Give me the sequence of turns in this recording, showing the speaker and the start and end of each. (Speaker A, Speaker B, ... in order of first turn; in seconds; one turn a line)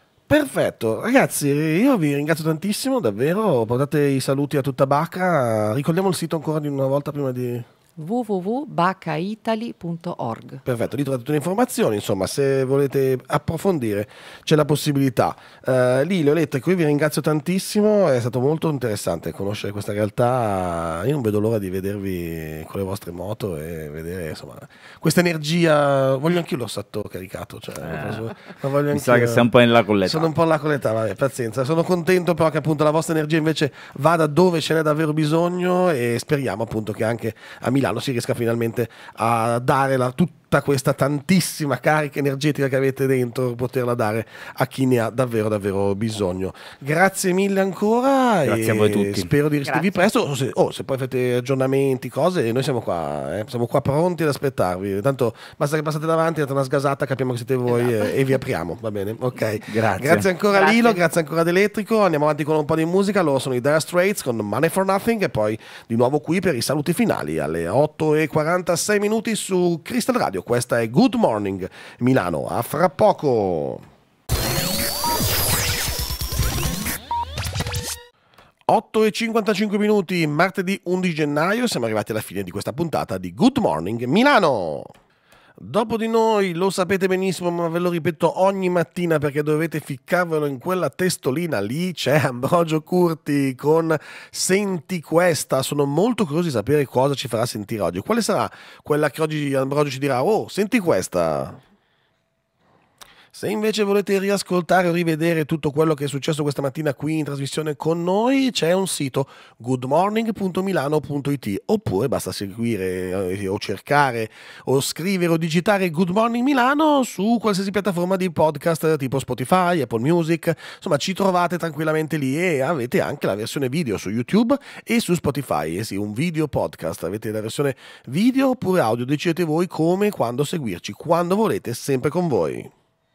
Speaker A: 0.3-7.7
Speaker B: 8.0-10.6
Speaker A: 10.6-29.5
Speaker C: 27.8-30.3
Speaker A: 30.0-73.8
Speaker C: 48.4-49.3
Speaker B: 49.6-50.1
Speaker B: 57.8-58.1
Speaker C: 59.7-60.2
Speaker B: 60.5-61.0
Speaker A: 78.7-84.9
Speaker A: 85.6-101.6
Speaker A: 103.3-132.7